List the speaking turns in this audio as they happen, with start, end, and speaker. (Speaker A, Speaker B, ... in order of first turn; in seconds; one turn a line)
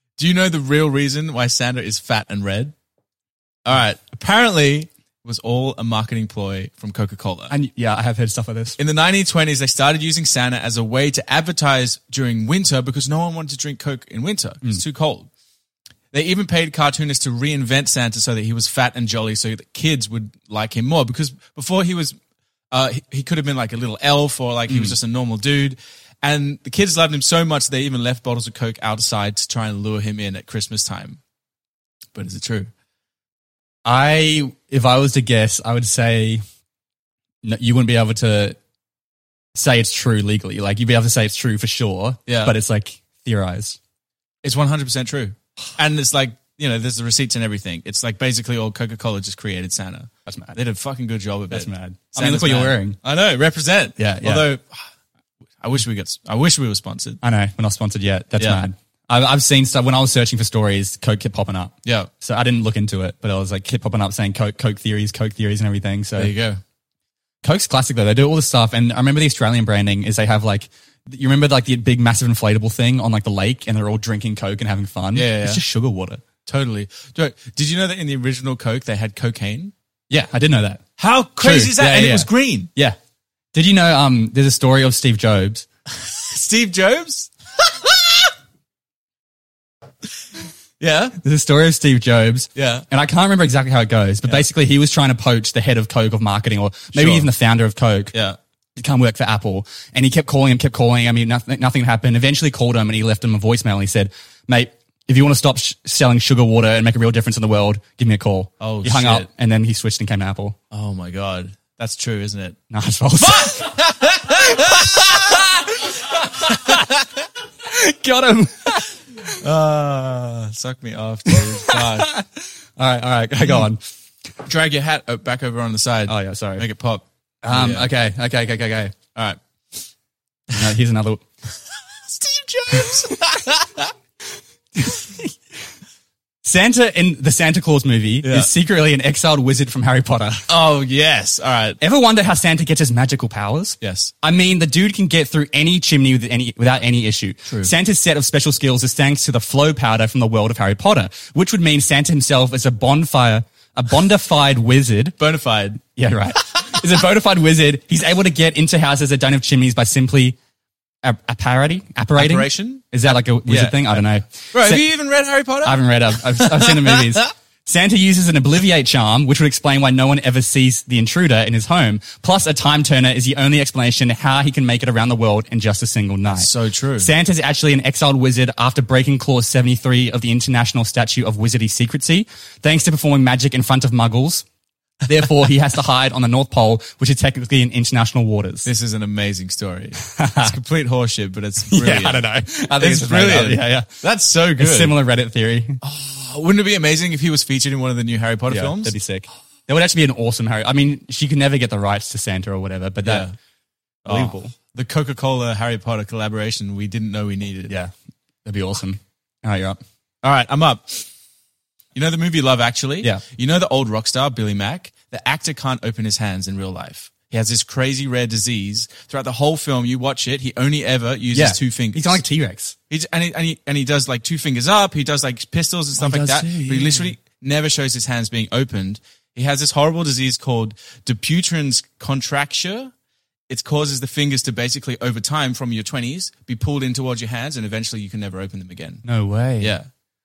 Speaker A: 0.2-2.7
Speaker A: 3.6-7.5
Speaker B: 7.5-8.8
Speaker A: 8.8-15.3
Speaker A: 16.1-22.1
Speaker A: 22.7-31.2
Speaker B: 24.7-24.9
Speaker A: 32.1-32.7
Speaker B: 33.8-36.4
Speaker B: 37.4-38.6
Speaker B: 39.5-43.8
Speaker A: 42.3-42.5
Speaker A: 44.4-54.8
Speaker B: 50.2-50.6
Speaker B: 51.5-53.0
Speaker B: 54.0-54.5
Speaker A: 55.6-57.2
Speaker B: 57.2-66.3
Speaker A: 58.4-58.6
Speaker A: 61.8-62.1
Speaker A: 66.2-66.6
Speaker B: 67.4-76.2
Speaker A: 75.1-75.6
Speaker A: 76.5-79.7
Speaker B: 80.1-80.8
Speaker A: 81.0-82.7
Speaker B: 81.4-83.0
Speaker B: 83.5-85.7
Speaker A: 85.9-88.3
Speaker A: 90.8-91.2
Speaker B: 91.2-98.1
Speaker A: 92.5-92.9
Speaker A: 96.9-97.3
Speaker B: 98.8-110.5
Speaker A: 108.6-109.3
Speaker A: 110.7-112.5
Speaker B: 112.7-113.7
Speaker A: 113.2-115.5
Speaker B: 114.6-116.8
Speaker B: 117.6-119.3
Speaker A: 119.4-122.1
Speaker B: 121.3-123.8
Speaker A: 124.4-127.9
Speaker B: 126.0-126.7
Speaker B: 127.4-128.9
Speaker B: 130.5-131.2
Speaker A: 132.0-133.9
Speaker B: 134.8-135.3
Speaker B: 136.4-140.5
Speaker A: 138.2-138.5
Speaker A: 140.5-141.8
Speaker B: 141.8-155.2
Speaker A: 143.8-144.1
Speaker A: 147.4-147.7
Speaker A: 155.2-155.8
Speaker B: 155.9-160.4
Speaker B: 161.0-164.8
Speaker A: 162.2-167.3
Speaker B: 165.6-184.4
Speaker A: 176.3-177.1
Speaker B: 185.0-188.7
Speaker A: 188.6-192.2
Speaker B: 190.1-190.5
Speaker B: 191.7-193.9
Speaker A: 192.8-194.9
Speaker B: 194.6-195.8
Speaker A: 195.8-198.9
Speaker B: 198.5-203.3
Speaker A: 203.0-203.3
Speaker B: 204.1-204.5
Speaker A: 204.1-207.7
Speaker B: 208.4-209.8
Speaker A: 210.2-211.1
Speaker A: 211.9-222.2
Speaker B: 221.3-222.8
Speaker A: 222.9-232.9
Speaker B: 226.0-227.1
Speaker A: 233.5-239.0
Speaker B: 239.0-239.8
Speaker A: 239.6-239.9